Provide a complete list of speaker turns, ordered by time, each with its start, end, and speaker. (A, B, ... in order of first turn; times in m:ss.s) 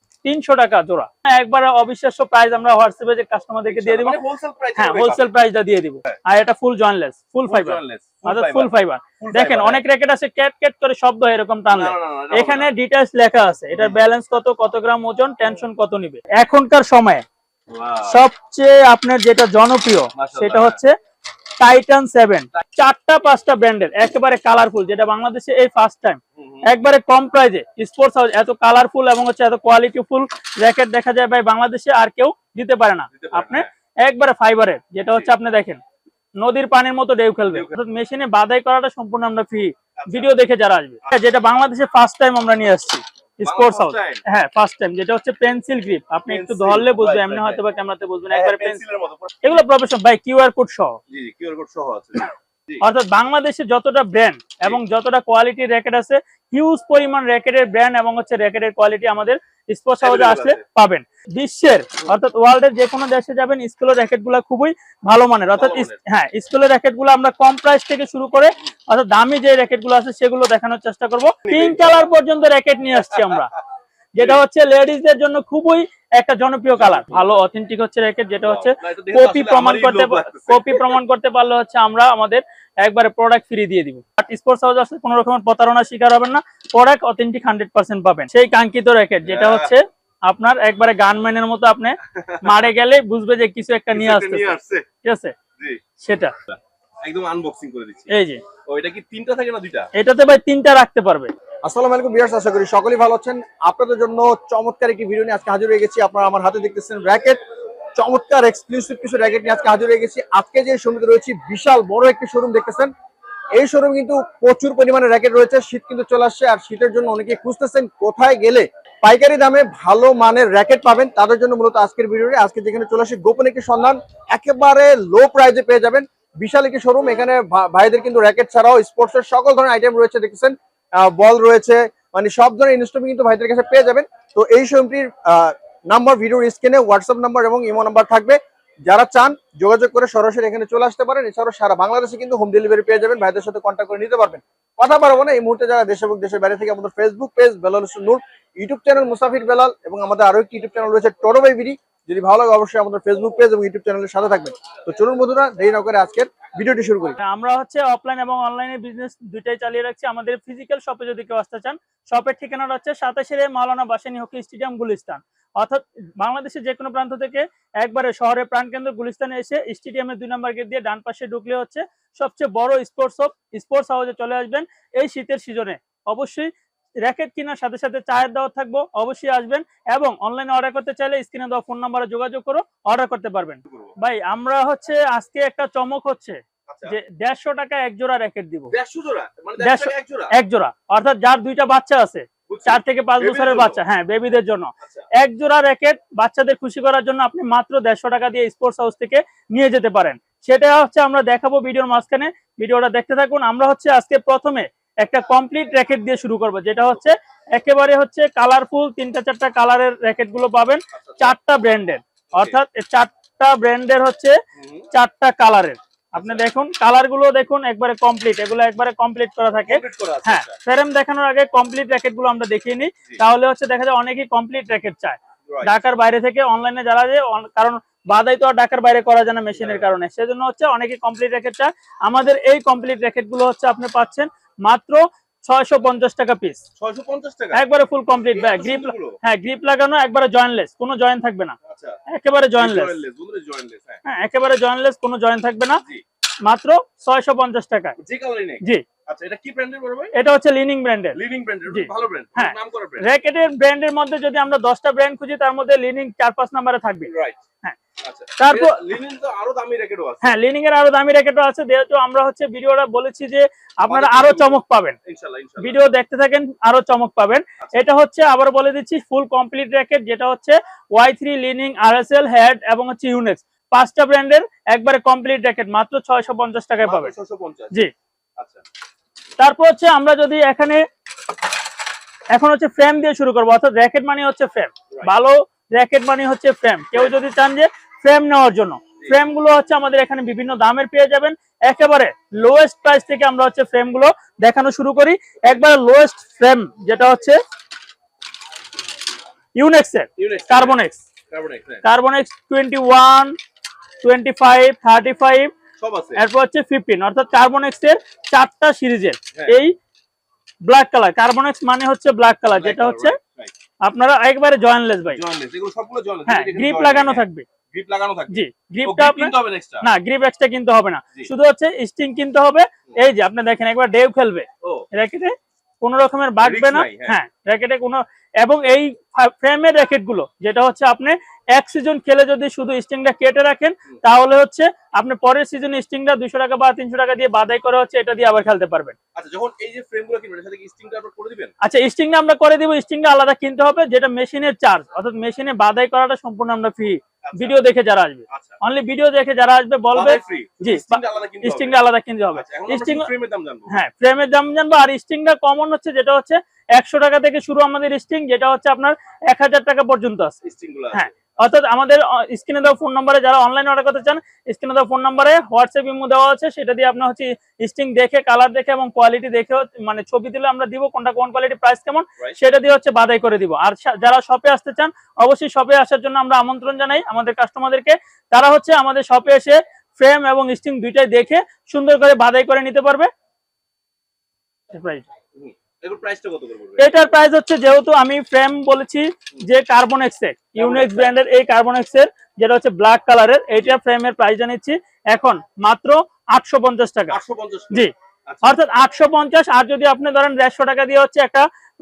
0:00.2-0:04.2 A
0:03.7-0:05.3 B
0:04.8-0:17.2 A
0:07.5-0:09.8 B
0:11.7-0:12.7 B
0:13.7-0:14.0 B
0:17.7-0:18.2 B
0:18.1-0:21.0 A
0:20.1-0:20.8 B
0:21.6-0:35.8 A
0:26.4-0:26.7 B
0:33.1-0:33.7 B
0:36.4-0:48.8 A
0:40.0-0:40.4 B
0:43.4-0:44.2 B
0:46.3-0:47.6 B
0:48.3-0:49.6 B
0:49.4-0:51.0 A
0:51.1-0:52.8 B
0:52.8-1:13.5 A
1:00.0-1:00.6 B
1:05.6-1:06.0 B
1:11.4-1:12.0 B
1:13.1-1:13.4 B
1:14.1-1:35.3 A
1:16.8-1:17.4 B
1:18.4-1:21.0 B
1:29.2-1:29.7 B
1:32.1-1:32.7 B
1:33.9-1:34.8 B
1:36.0-1:36.3 A
1:36.5-1:38.1 B
1:38.1-1:38.4 A
1:38.6-1:39.9 B
1:39.9-1:41.3 A
1:41.6-1:47.4 C
1:47.9-1:52.9 C
1:53.5-2:37.2 C
2:37.2-2:56.5 A
2:57.0-3:08.7 A
3:03.6-3:03.9 B
3:06.7-3:06.9 B
3:08.7-3:10.3 B
3:09.6-3:34.4 A
3:12.5-3:13.8 B
3:14.8-3:15.1 B
3:30.9-3:31.3 B
3:34.6-3:34.9 B
3:34.9-3:56.6 A
3:36.1-3:36.5 B
3:39.7-3:40.5 B
3:45.5-3:45.8 B
3:49.6-3:49.9 B
3:56.8-3:57.6 B
3:57.5-4:01.6 A
3:58.3-3:59.2 B
4:01.6-4:02.0 B
4:02.1-4:03.0 A
4:02.6-4:04.0 B
4:04.0-4:05.8 A
4:06.4-4:08.0 A
4:08.0-4:10.1 B
4:10.1-4:11.2 A
4:11.1-4:13.1 B
4:11.7-4:17.1 A
4:17.1-4:17.4 B
4:18.0-4:20.3 B
4:18.4-4:18.7 A
4:20.2-4:25.0 A
4:23.9-4:25.8 B
4:25.6-4:37.1 A
4:36.8-4:37.8 B
4:39.4-4:40.8 A
4:42.3-4:57.4 A
4:59.6-5:01.0 A
5:00.2-5:00.8 B
5:01.3-5:01.8 B
5:01.8-5:03.4 A
5:04.0-5:05.5 A
5:05.8-5:06.2 B
5:06.2-5:09.7 A
5:10.6-5:13.2 A
5:12.6-5:13.5 B
5:13.8-5:15.2 A
5:15.1-5:19.8 B
5:16.3-5:17.4 A
5:18.3-5:39.0 A
5:26.4-5:27.2 B
5:39.1-5:41.5 B
5:41.6-5:53.1 A
5:47.2-5:47.6 B
5:48.3-5:48.6 B
5:49.9-5:51.7 B
5:52.3-5:53.8 B
5:53.7-6:00.4 A
6:00.4-6:01.1 B
6:00.9-6:23.1 A
6:24.7-6:25.1 A
6:25.4-6:27.0 B
6:26.8-6:37.2 A
6:30.6-6:31.1 B
6:37.1-6:38.6 B
6:37.7-6:41.5 A